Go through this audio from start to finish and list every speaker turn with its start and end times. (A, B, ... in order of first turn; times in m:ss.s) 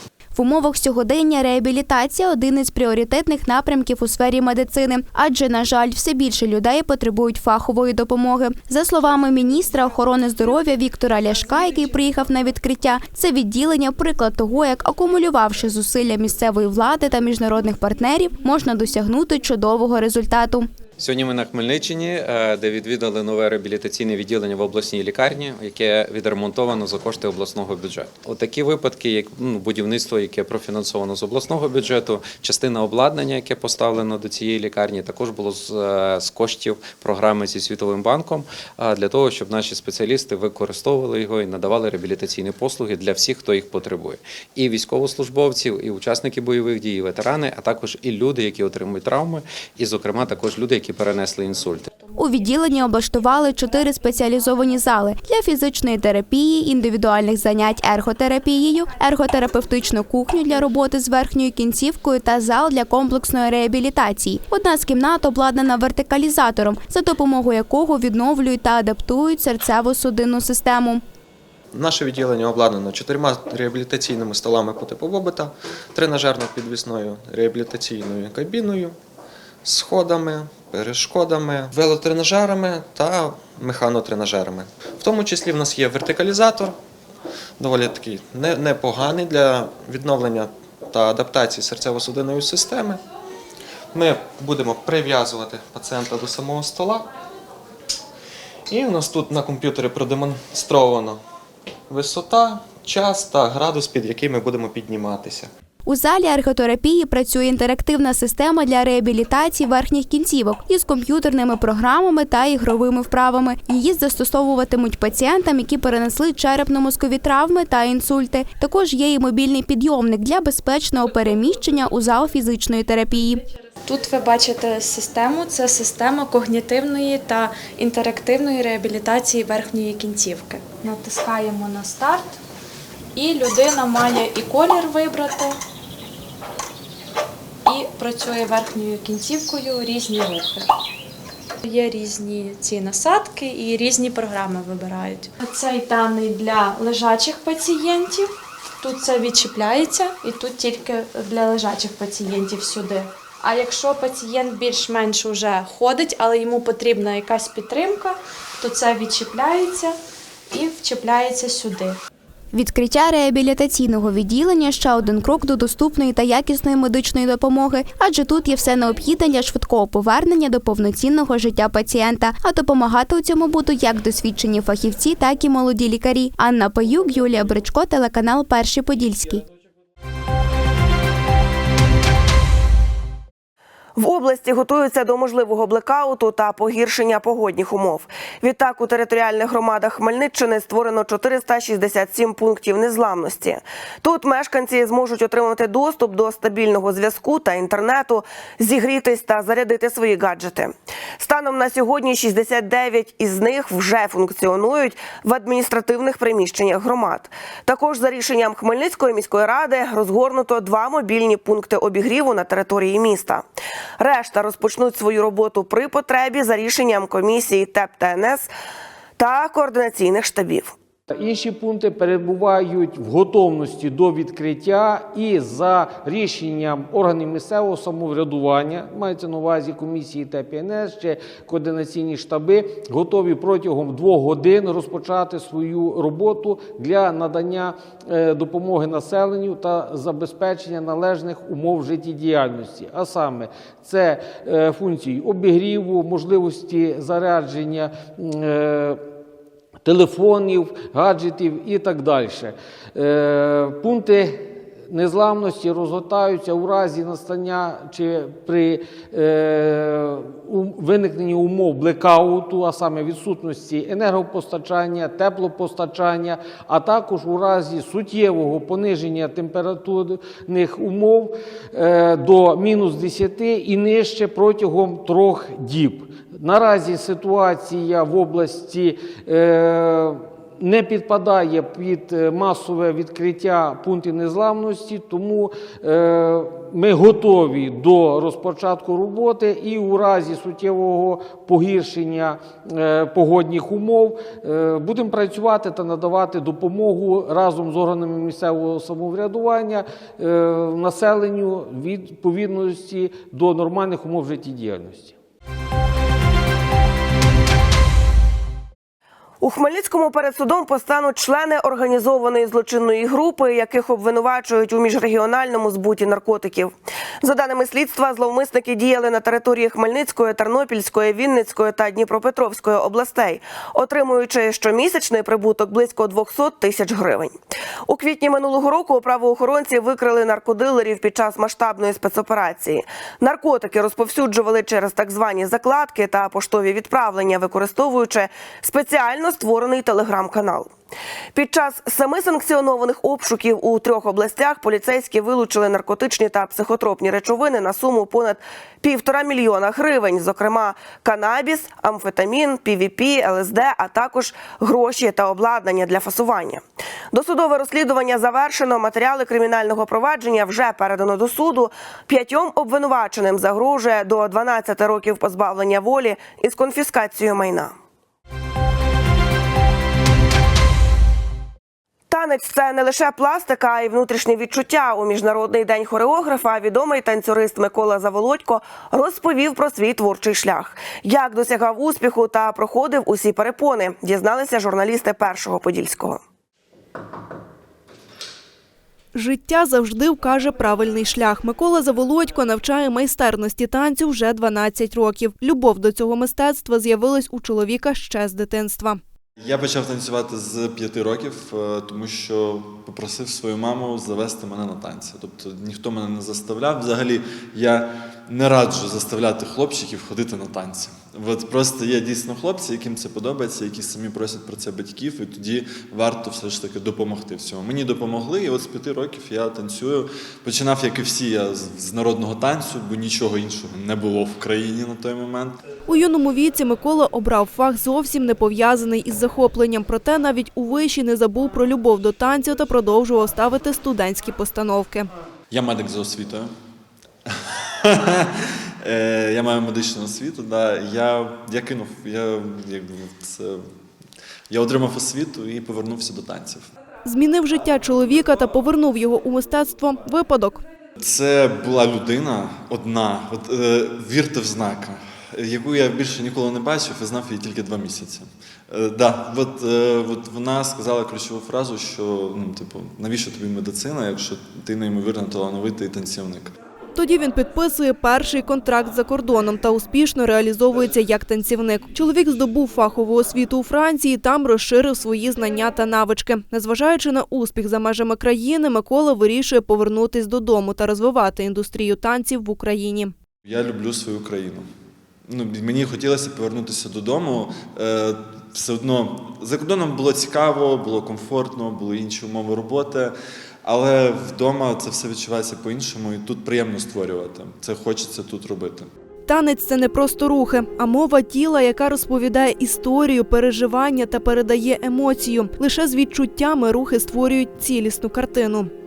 0:00.3-0:20.7 A
0:21.0-0:51.9 B
0:52.1-1:11.0 A
1:11.7-1:19.0 C
1:19.6-1:26.8 C
1:27.6-1:33.0 C
1:33.9-1:37.1 C
1:38.7-1:41.2 C
1:41.9-1:45.5 C
1:45.8-2:03.4 A
2:03.8-2:12.3 D
2:13.1-2:15.6 D
2:17.6-2:20.7 D
2:21.6-2:40.0 D
2:40.5-2:42.0 D
2:42.5-2:59.4 A
3:04.0-3:33.4 E
3:34.0-3:38.5 E
3:39.2-3:40.7 E
3:41.2-4:09.0 F
4:09.8-5:05.1 F
5:09.4-5:27.4 E
5:27.9-5:40.7 E
5:41.3-6:07.7 E
6:12.1-6:26.2 E
6:29.1-6:39.0 G
6:39.4-7:05.6 H
7:05.9-7:15.1 G
7:15.5-7:16.5 H
7:17.2-7:18.2 H
7:18.8-7:23.6 H
7:24.5-7:26.7 H
7:27.0-7:30.6 G
7:31.0-7:46.5 H
7:46.9-8:03.1 G
8:03.4-8:04.6 H
8:05.3-8:13.1 H
8:13.6-8:18.9 H
8:19.3-8:28.7 G